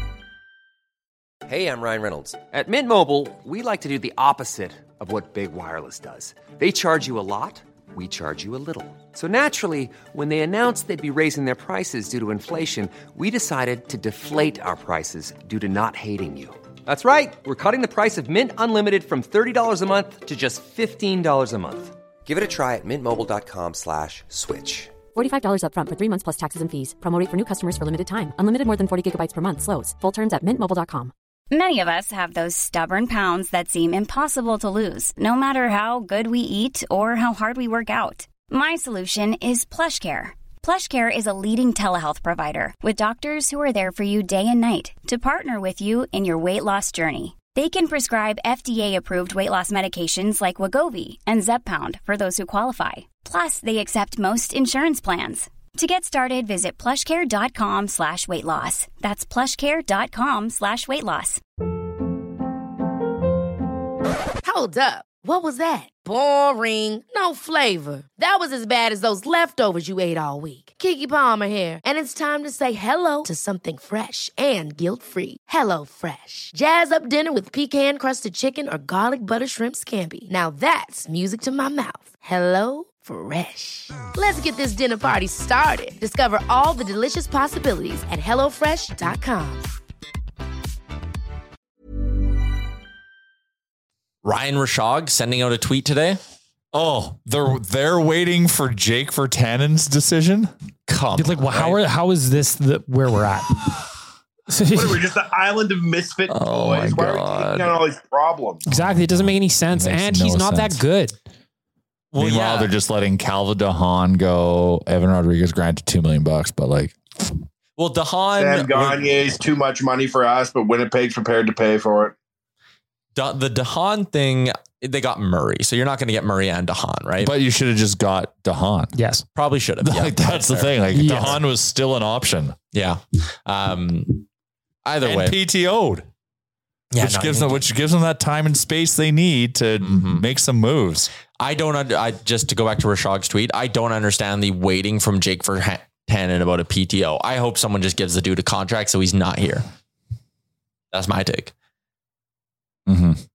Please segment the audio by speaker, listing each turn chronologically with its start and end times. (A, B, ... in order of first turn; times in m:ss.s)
0:01.5-0:24.9 A
0:25.2-0:31.1 B
0:31.5-1:01.4 C
1:04.4-1:29.7 D
1:34.2-1:36.2 E
1:36.7-1:40.5 F
1:40.9-1:41.8 E
1:41.2-1:43.6 G
1:44.5-1:45.0 G
1:44.7-1:48.6 H
1:46.4-1:47.4 F
1:46.5-1:47.6 E
1:48.7-1:51.1 G
1:48.7-1:50.8 F
1:52.1-1:52.7 E
1:52.2-1:57.0 F
1:57.8-1:59.1 E
1:58.4-2:02.2 H
2:03.2-2:07.3 E
2:07.2-2:09.0 F
2:09.0-2:09.2 G
2:09.4-2:11.4 E
2:09.8-2:12.6 F
2:10.9-2:11.4 G
2:12.7-2:14.2 E
2:14.8-2:15.4 E
2:15.0-2:16.1 F
2:16.9-2:17.6 E
2:17.0-2:21.1 F
2:19.8-2:20.2 E
2:21.4-2:29.7 E
2:30.9-2:31.5 E
2:32.9-2:33.2 F